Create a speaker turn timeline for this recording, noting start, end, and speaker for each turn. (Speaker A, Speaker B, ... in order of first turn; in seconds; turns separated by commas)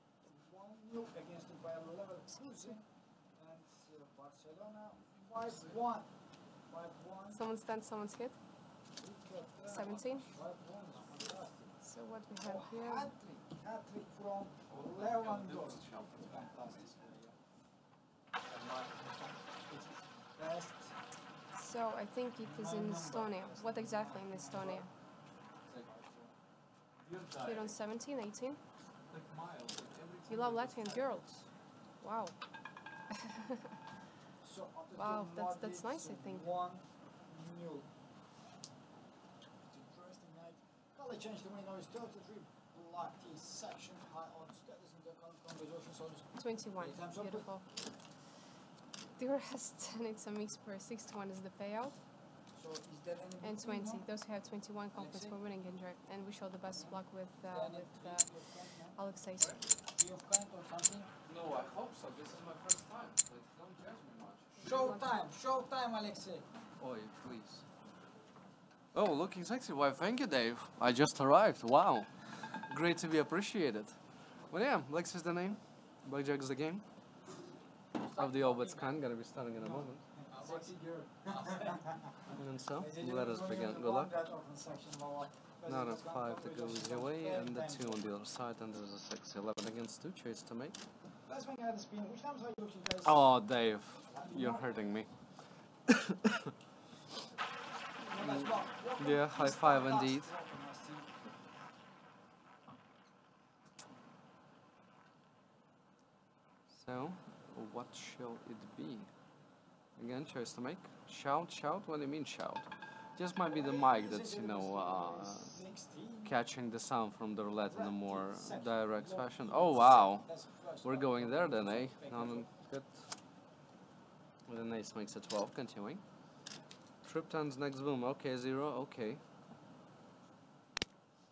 Speaker A: 0.2-6.1, Speaker B: 5.3-5.8, Speaker A: 6.7-7.4, Speaker C: 7.3-8.4, Speaker A: 8.9-11.8, Speaker C: 9.7-10.3, Speaker B: 9.8-10.3, Speaker C: 11.8-13.1, Speaker A: 12.4-17.2, Speaker B: 14.7-17.3, Speaker A: 19.7-21.0, Speaker C: 21.5-24.9, Speaker A: 22.4-24.9, Speaker A: 25.7-26.3, Speaker B: 27.1-27.6, Speaker C: 27.3-28.6, Speaker C: 30.3-31.5, Speaker A: 30.6-31.2, Speaker C: 32.0-32.4, Speaker A: 34.4-37.9, Speaker C: 34.9-36.5, Speaker A: 39.7-46.3, Speaker C: 46.4-47.7, Speaker A: 46.8-47.4, Speaker C: 49.2-52.0, Speaker A: 52.5-54.0, Speaker C: 53.4-59.6, Speaker A: 54.9-55.4, Speaker A: 56.7-57.0, Speaker A: 57.5-59.0, Speaker A: 59.9-61.2, Speaker B: 61.3-64.7, Speaker C: 64.6-65.3, Speaker A: 64.6-66.5, Speaker B: 66.8-67.7, Speaker B: 68.9-76.8, Speaker A: 78.1-78.9, Speaker B: 78.1-80.0, Speaker A: 79.6-88.1, Speaker B: 82.3-84.2, Speaker B: 85.6-90.8, Speaker A: 91.3-93.3, Speaker B: 93.0-95.1, Speaker A: 94.1-94.8, Speaker B: 95.9-96.5, Speaker A: 98.0-101.1, Speaker B: 98.2-100.3, Speaker B: 106.7-109.1, Speaker B: 110.0-115.6, Speaker A: 113.5-116.3, Speaker B: 116.2-123.0, Speaker A: 117.7-122.5, Speaker B: 124.5-126.0, Speaker B: 127.0-129.2